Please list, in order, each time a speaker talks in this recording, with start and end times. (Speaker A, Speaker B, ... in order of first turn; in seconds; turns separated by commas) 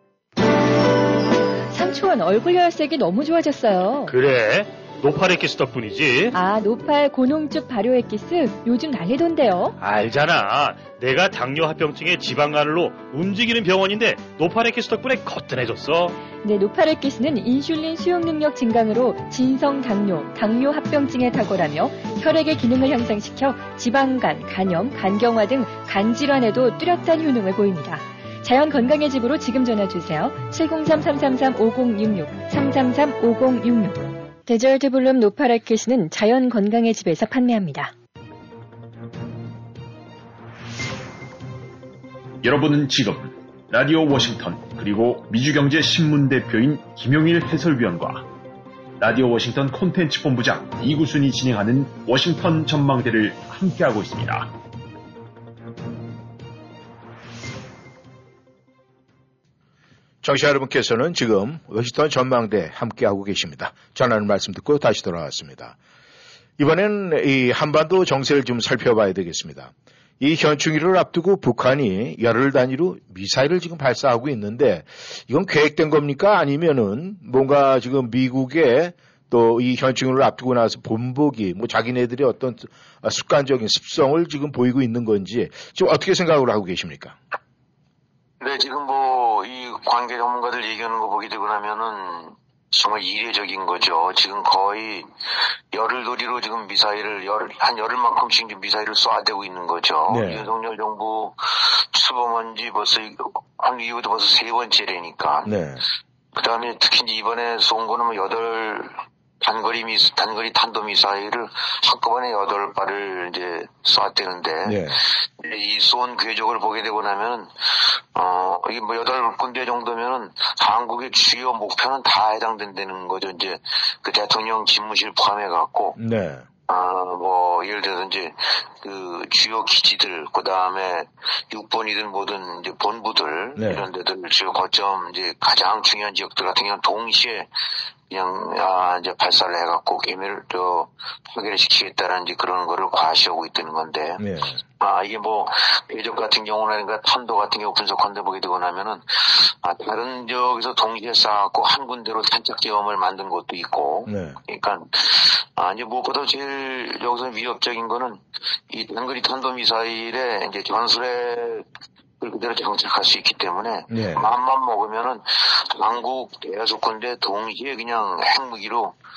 Speaker A: 1.7-4.1, Speaker B: 4.1-6.3, Speaker A: 6.3-9.7, Speaker B: 9.8-16.2, Speaker A: 16.4-37.9, Speaker C: 42.4-48.3, Speaker C: 49.0-54.5, Speaker D: 60.2-65.8, Speaker D: 66.6-87.2, Speaker E: 88.4-95.1, Speaker E: 95.7-105.5, Speaker D: 100.1-100.5, Speaker D: 105.5-105.8, Speaker E: 106.3-126.0, Speaker D: 114.7-115.0, Speaker D: 126.0-126.5, Speaker E: 126.7-137.5, Speaker D: 133.6-133.9, Speaker E: 138.1-144.2, Speaker D: 144.2-144.6, Speaker E: 144.8-158.2, Speaker D: 154.1-154.4, Speaker E: 158.7-161.7, Speaker E: 162.2-168.9, Speaker D: 163.9-164.3